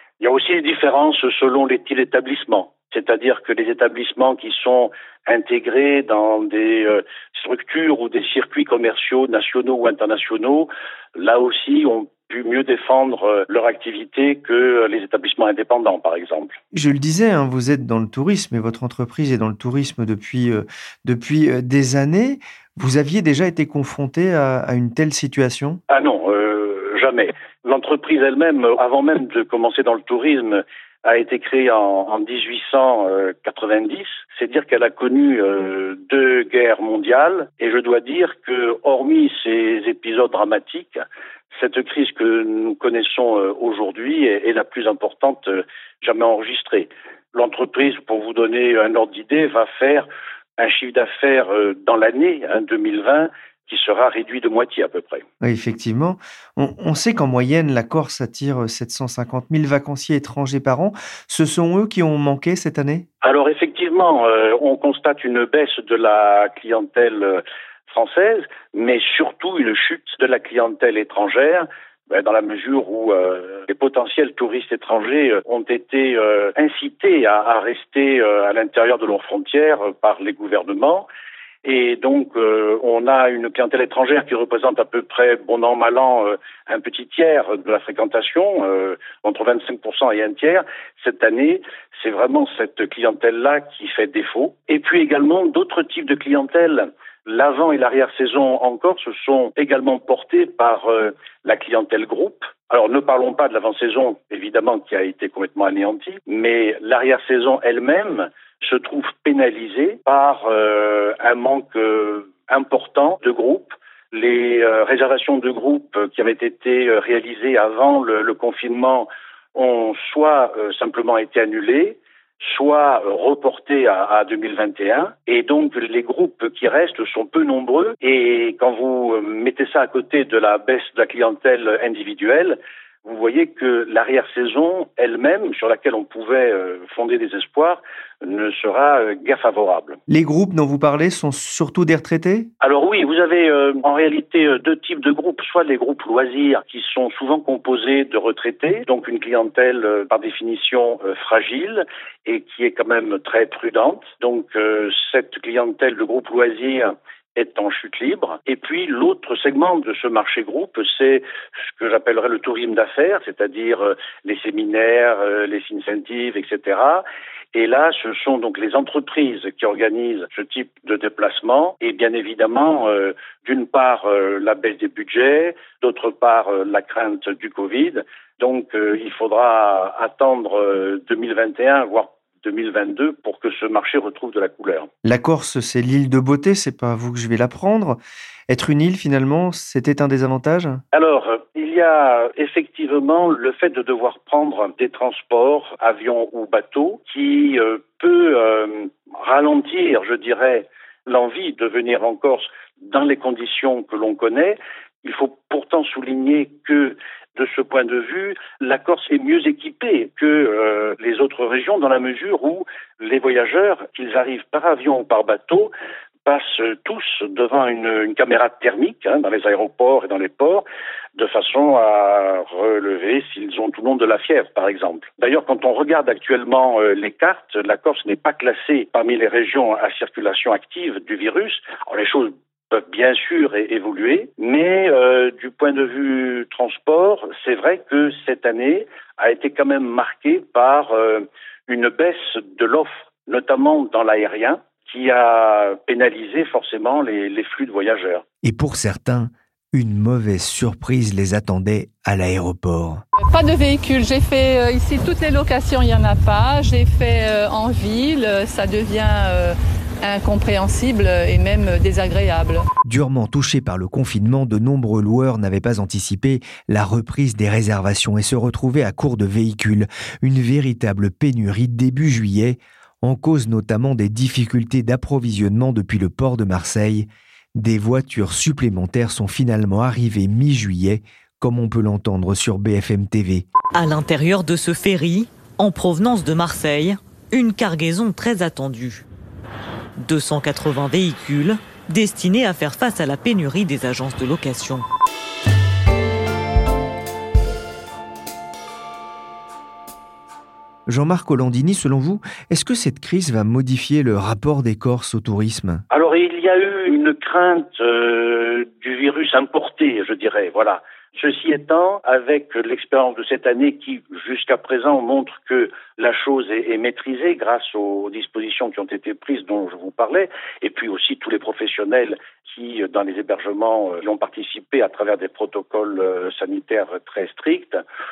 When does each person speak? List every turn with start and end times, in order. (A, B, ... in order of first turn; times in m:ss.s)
0:00.2-0:16.6 A
0:16.7-0:25.8 B
0:25.9-0:55.2 A
0:55.4-1:03.1 B
1:03.2-1:21.1 A
1:21.6-2:20.0 A
2:20.1-2:22.5 B
2:22.6-3:04.9 A
3:05.1-3:10.8 B
3:10.9-3:35.7 A
3:36.2-4:08.2 A
4:08.4-4:13.0 B
4:13.3-4:22.6 C
4:22.9-4:43.5 B
4:43.8-4:49.0 D
4:50.0-4:54.9 D
5:00.9-5:05.8 B
5:05.9-5:27.8 A